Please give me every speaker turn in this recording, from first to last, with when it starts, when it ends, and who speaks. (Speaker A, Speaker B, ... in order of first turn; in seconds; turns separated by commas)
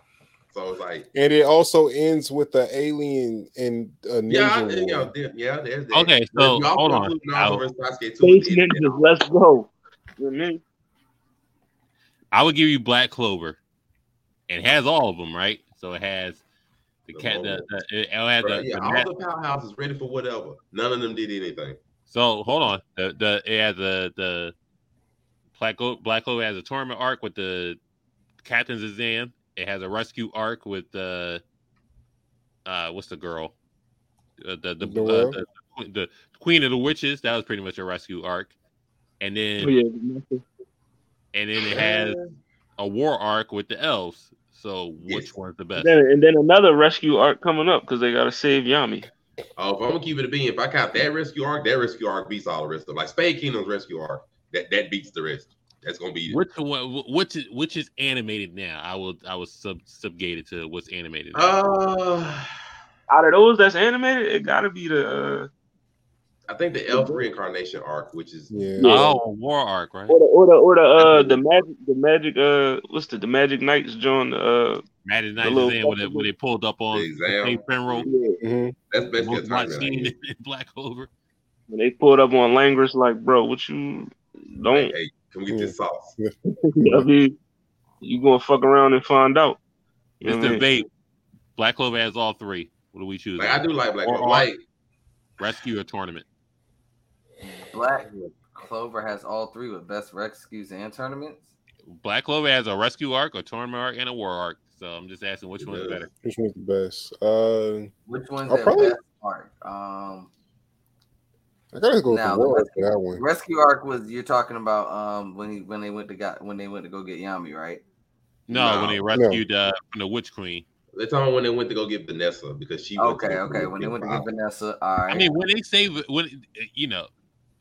Speaker A: 0.5-1.1, Speaker B: 1.1-5.1, Speaker A: 4.3-9.1, Speaker C: 5.9-7.6, Speaker D: 8.2-10.6, Speaker C: 12.3-13.6, Speaker C: 14.5-16.4, Speaker C: 17.1-19.1, Speaker A: 17.1-17.7, Speaker A: 18.4-21.8, Speaker C: 22.1-24.5, Speaker C: 25.6-27.8, Speaker C: 28.4-31.4, Speaker C: 32.6-33.5, Speaker C: 34.4-38.5, Speaker B: 34.8-35.4, Speaker C: 39.2-39.7, Speaker D: 39.6-40.4, Speaker C: 41.3-42.2, Speaker A: 41.7-42.3, Speaker C: 42.8-45.9, Speaker A: 45.0-45.3, Speaker D: 45.8-49.1, Speaker A: 49.6-56.4, Speaker C: 56.3-61.5, Speaker A: 61.3-62.5, Speaker D: 63.1-65.5, Speaker A: 66.5-68.7, Speaker D: 66.9-67.2, Speaker B: 68.5-69.0, Speaker D: 68.8-69.2, Speaker C: 68.8-70.2, Speaker D: 70.1-74.8, Speaker A: 71.0-71.4, Speaker C: 75.0-78.1, Speaker D: 75.4-76.3, Speaker A: 76.9-78.1, Speaker D: 78.0-78.4, Speaker B: 78.4-78.7, Speaker A: 78.9-80.1, Speaker C: 79.2-81.1, Speaker D: 81.7-84.9, Speaker A: 84.7-86.1, Speaker B: 85.5-87.1, Speaker D: 86.6-87.3, Speaker D: 88.0-89.6, Speaker D: 90.2-90.6, Speaker C: 90.2-90.9, Speaker C: 91.6-94.5, Speaker A: 93.4-94.6, Speaker C: 95.4-96.2, Speaker E: 97.7-101.5, Speaker A: 97.9-98.3, Speaker C: 101.9-106.1, Speaker A: 105.6-106.0, Speaker B: 106.2-107.9, Speaker E: 108.1-110.3, Speaker B: 108.5-109.0, Speaker B: 111.7-113.2, Speaker E: 112.1-117.8, Speaker C: 118.5-120.7, Speaker A: 118.5-119.0, Speaker B: 119.1-119.4, Speaker A: 120.9-124.3, Speaker E: 123.0-125.3, Speaker C: 125.1-127.1